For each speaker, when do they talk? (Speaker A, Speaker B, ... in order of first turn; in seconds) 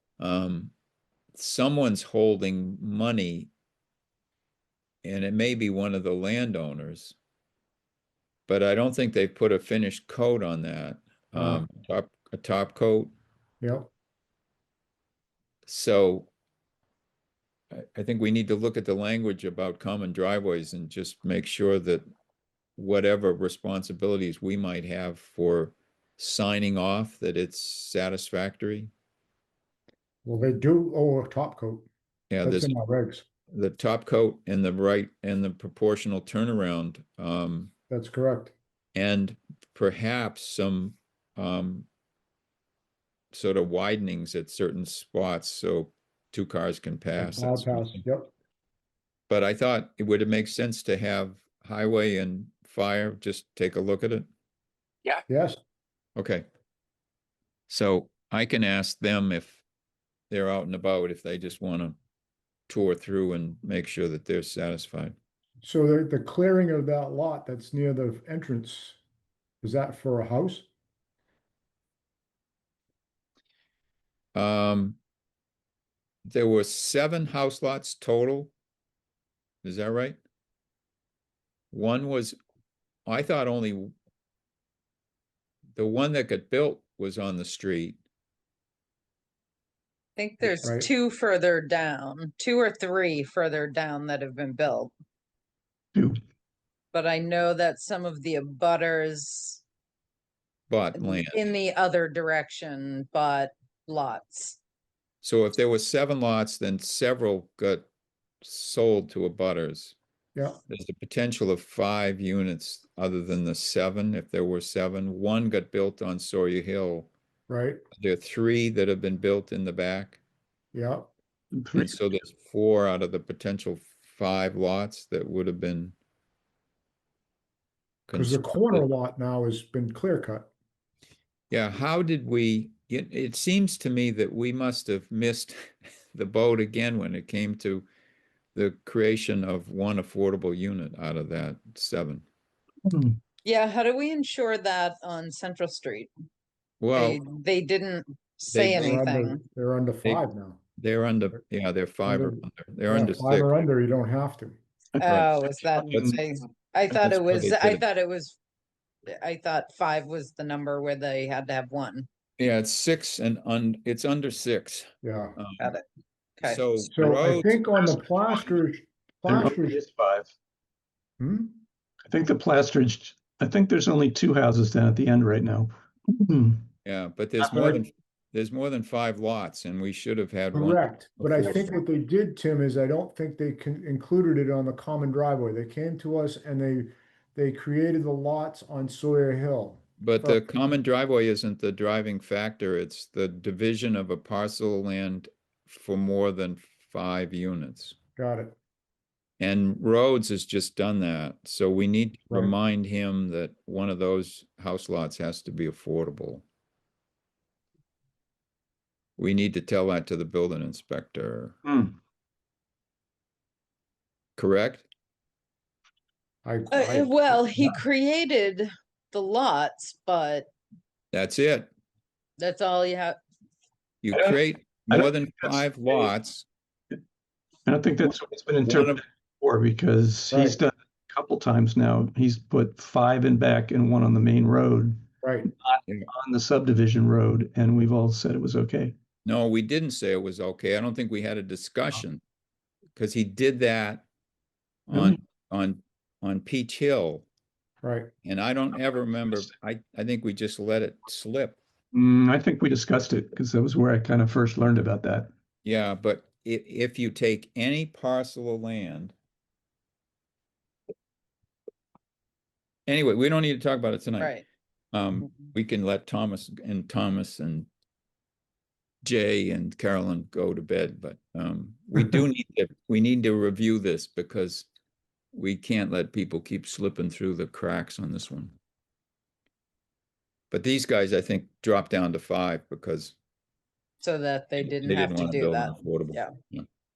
Speaker A: 0.2-0.7, 1.4-3.5, 5.0-7.2, 8.5-13.1, 15.7-16.3, 17.7-22.0, 22.8-28.9, 32.3-32.7, 33.5-37.7, 39.0-41.9, 43.3-48.0, 49.3-54.3, 56.2-56.5, 57.7-59.6, 60.3-62.0, 62.7-65.2, 74.3-75.0, 76.2-78.5, 79.6-80.2, 81.7-82.4, 83.1-83.9, 85.8-88.0, 100.7-101.5, 105.2-107.9, 108.4-110.0, 110.7-117.1, 118.0-120.2, 121.8-126.0, 128.1-128.9, 131.5-135.6, 136.1-137.9, 138.6-142.2, 146.8-147.2, 148.5-149.0, 150.8-153.5, 155.0-155.3, 155.9-156.2, 156.9-157.8, 162.4-165.7, 166.4-168.1, 176.8-181.8, 190.0-198.0, 199.4-206.4, 209.2-211.6, 214.4-214.9, 221.1-221.7, 224.0-226.5, 228.6-229.0, 239.2-242.2, 242.9-244.1, 244.9-247.3, 248.2-251.6, 255.7-259.1, 262.9-264.3, 264.9-267.7, 269.0-274.7, 275.3-278.6, 280.5-283.2, 284.6-286.7
Speaker B: 11.3-11.7, 13.6-13.9, 30.2-31.9, 32.4-33.2, 37.9-38.5, 47.2-48.3, 55.3-55.6, 65.6-69.0, 69.6-70.7, 90.6-90.9, 110.3-110.6, 117.5-117.8, 120.7-121.1, 128.2-130.5, 148.8-150.6, 152.1-154.6, 165.0-165.4, 166.9-169.8, 171.2-171.6, 177.5-177.8, 180.5-190.4, 198.2-198.6, 216.4-217.8, 230.3-230.6, 235.2-235.5, 247.8-248.1
Speaker C: 90.2-94.9, 96.9-99.6, 101.0-104.6, 143.4-146.1, 146.9-149.4, 155.0-158.4, 159.1-162.1, 165.6-165.8, 216.7-220.5, 222.4-223.2, 264.2-264.4, 284.0-286.3
Speaker D: 96.0-96.2, 121.5-121.9, 142.9-143.2, 169.3-170.3, 172.1-176.7, 177.4-177.8, 211.7-212.0, 224.1-224.4, 224.9-225.6, 227.7-235.1, 235.6-238.9, 251.9-255.3